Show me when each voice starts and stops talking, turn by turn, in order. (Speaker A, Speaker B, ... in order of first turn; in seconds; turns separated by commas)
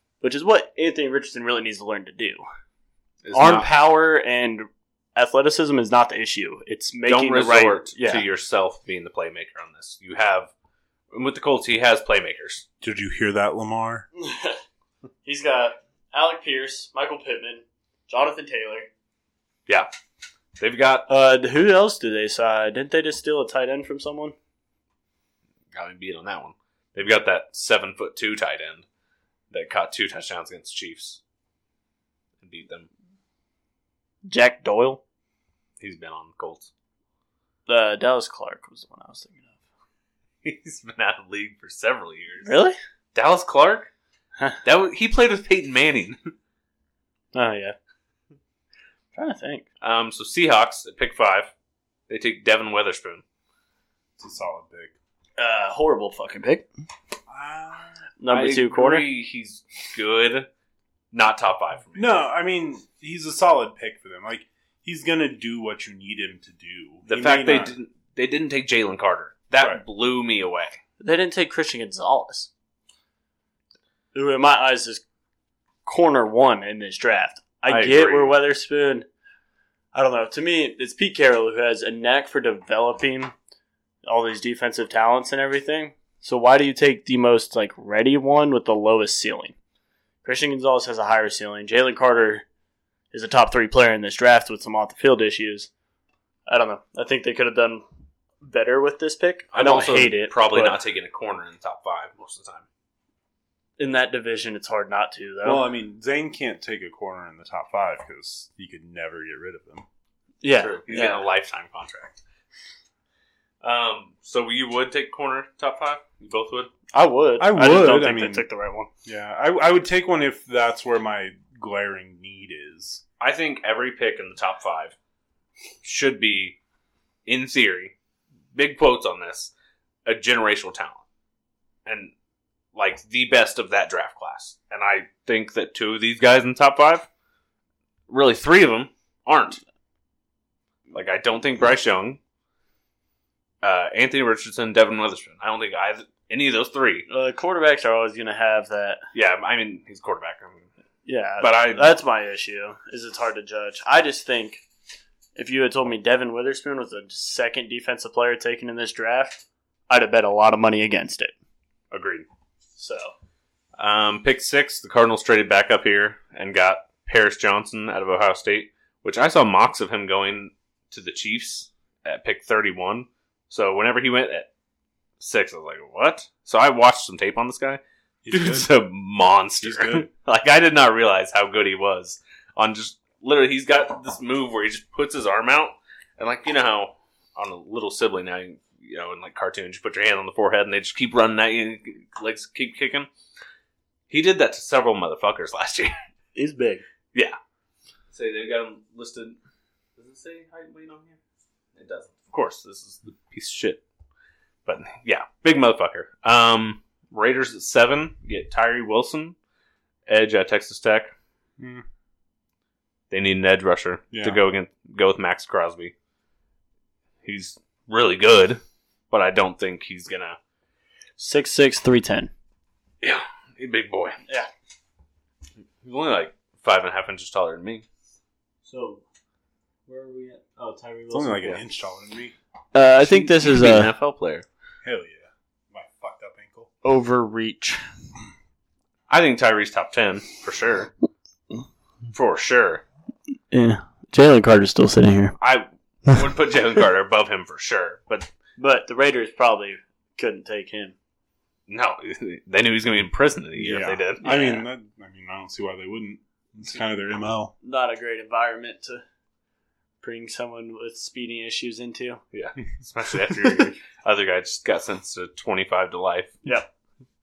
Speaker A: 0.2-2.4, Speaker B: 3.2-3.7, Speaker A: 3.3-8.2, Speaker B: 7.1-10.5, Speaker B: 11.1-12.7, Speaker C: 12.8-14.1, Speaker A: 14.2-14.6, Speaker A: 15.2-18.9, Speaker B: 20.6-21.1, Speaker A: 21.1-24.4, Speaker B: 25.7-28.9, Speaker B: 29.5-31.2, Speaker B: 32.4-32.9, Speaker A: 34.3-35.0, Speaker B: 35.8-36.7, Speaker A: 37.7-39.6, Speaker B: 40.4-42.5, Speaker A: 42.4-42.8, Speaker B: 43.1-43.9, Speaker B: 44.6-46.2, Speaker A: 47.3-47.8, Speaker A: 49.1-49.6, Speaker B: 49.8-51.5, Speaker B: 52.1-53.2, Speaker C: 54.2-54.9, Speaker A: 55.4-56.7, Speaker C: 57.3-58.0, Speaker A: 58.2-59.0, Speaker B: 58.3-60.5, Speaker B: 61.1-62.1, Speaker C: 62.0-67.7, Speaker B: 67.1-70.8, Speaker A: 71.0-72.5, Speaker A: 74.1-75.0, Speaker A: 75.9-79.1, Speaker B: 77.7-78.3, Speaker A: 79.9-83.3, Speaker A: 84.1-89.5, Speaker A: 90.2-92.5, Speaker A: 93.1-95.7, Speaker A: 96.5-97.8, Speaker A: 98.4-100.8, Speaker B: 99.5-102.7, Speaker A: 103.8-105.7, Speaker C: 105.4-109.9, Speaker A: 110.4-111.2, Speaker B: 110.5-112.2, Speaker B: 113.6-116.7, Speaker A: 116.9-118.9, Speaker C: 117.4-118.5, Speaker C: 119.0-123.0, Speaker B: 123.2-125.0, Speaker B: 125.8-126.6, Speaker B: 127.3-127.9, Speaker B: 128.5-129.5, Speaker B: 130.1-131.0, Speaker B: 131.9-132.1, Speaker B: 132.8-137.1, Speaker B: 138.1-139.6, Speaker B: 140.9-142.2, Speaker B: 143.6-147.1, Speaker A: 147.1-149.0, Speaker B: 149.1-150.7, Speaker A: 151.1-154.6, Speaker B: 151.4-151.9, Speaker A: 155.4-161.3, Speaker B: 161.9-162.3, Speaker A: 162.8-163.1, Speaker B: 163.8-174.5, Speaker B: 175.2-193.1, Speaker C: 178.2-178.7, Speaker C: 179.6-180.1, Speaker B: 194.1-196.0, Speaker A: 196.3-196.8, Speaker B: 198.1-199.4, Speaker B: 200.0-201.2, Speaker B: 201.8-203.8, Speaker B: 204.7-209.4, Speaker B: 210.1-211.1, Speaker C: 211.6-211.8, Speaker B: 213.1-215.9, Speaker C: 214.1-214.4, Speaker B: 217.2-220.4, Speaker A: 221.2-222.3, Speaker B: 223.0-224.2, Speaker B: 225.8-227.8, Speaker A: 228.7-229.0, Speaker A: 229.9-231.6, Speaker C: 231.1-232.3, Speaker A: 232.7-233.9, Speaker B: 233.1-234.5, Speaker C: 234.8-236.7, Speaker A: 236.8-237.8, Speaker B: 239.1-240.9, Speaker B: 242.1-242.8, Speaker A: 243.5-245.4, Speaker B: 245.4-248.3, Speaker A: 248.6-250.9, Speaker B: 251.7-254.3, Speaker C: 253.6-257.5, Speaker A: 254.2-254.6, Speaker A: 257.6-259.0, Speaker A: 260.0-262.2, Speaker B: 262.3-266.4